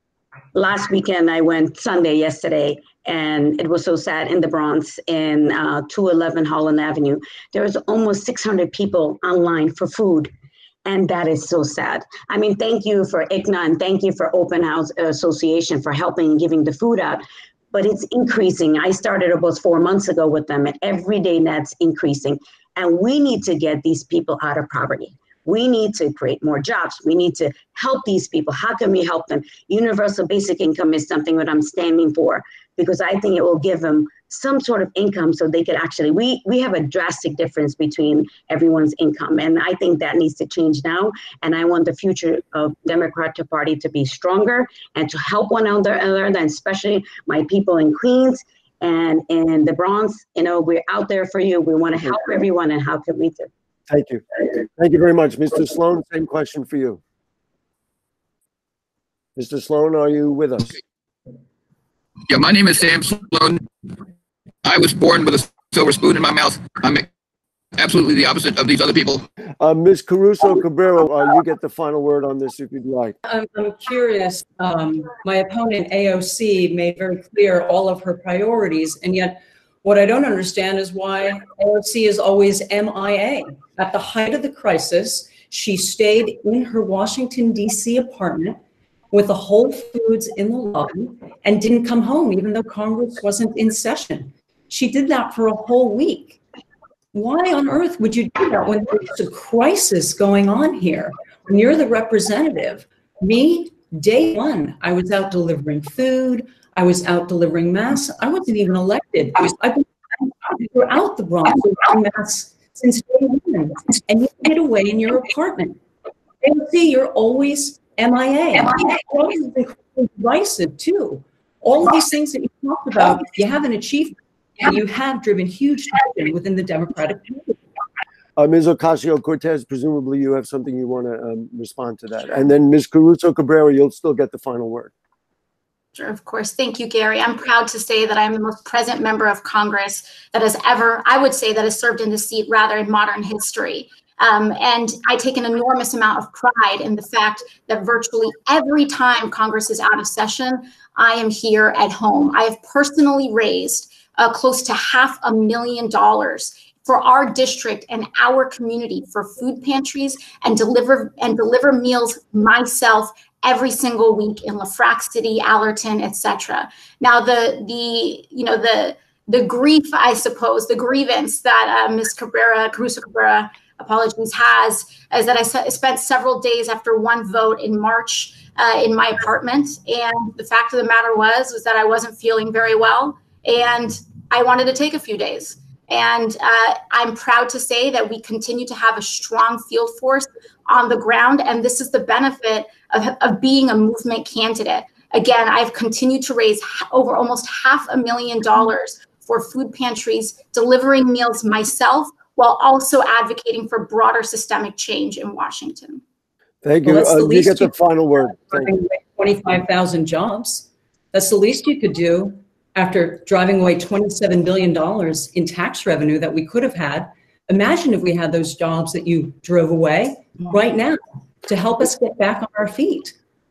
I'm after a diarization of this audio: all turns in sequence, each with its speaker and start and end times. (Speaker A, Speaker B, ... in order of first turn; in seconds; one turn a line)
Speaker A: 0.5-10.3
Speaker A: 10.8-17.2
Speaker A: 17.7-53.5
Speaker B: 53.9-57.0
Speaker B: 59.4-60.8
Speaker C: 62.3-63.7
Speaker C: 64.6-67.1
Speaker C: 67.8-69.2
Speaker B: 69.6-73.1
Speaker D: 73.2-88.6
Speaker D: 89.1-96.4
Speaker D: 97.1-115.8
Speaker D: 116.4-127.6
Speaker B: 128.4-134.9
Speaker E: 135.9-206.0
Speaker B: 206.6-208.7
Speaker D: 206.8-207.7
Speaker D: 208.5-223.1